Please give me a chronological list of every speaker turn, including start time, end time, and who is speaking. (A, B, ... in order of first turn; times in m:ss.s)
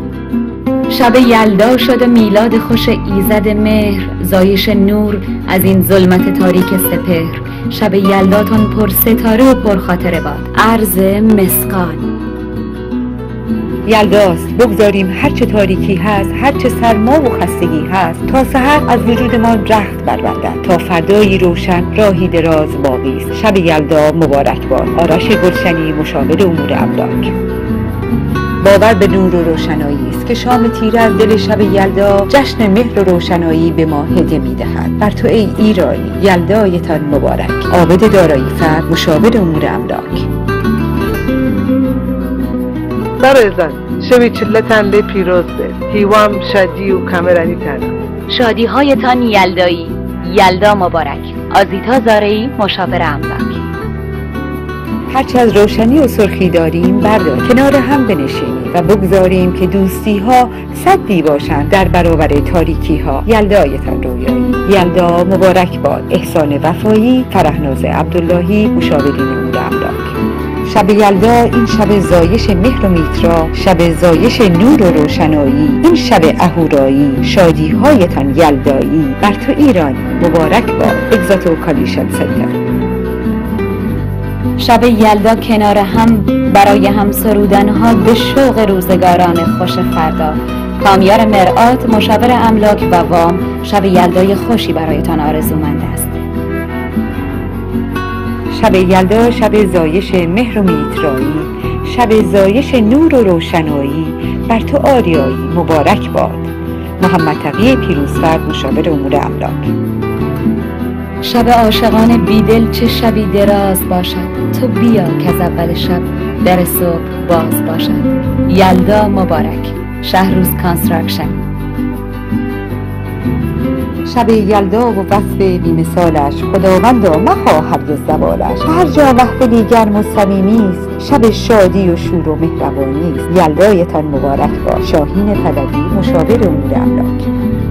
0:00.9-0:12.1 A
0:13.9-0:27.3 B
0:28.6-0:40.3 B
0:43.2-0:47.9 C
0:48.3-0:53.6 A
0:55.1-1:22.6 B
1:24.6-1:36.2 A
1:38.5-1:49.7 B
1:51.2-2:01.4 A
2:04.1-2:17.2 B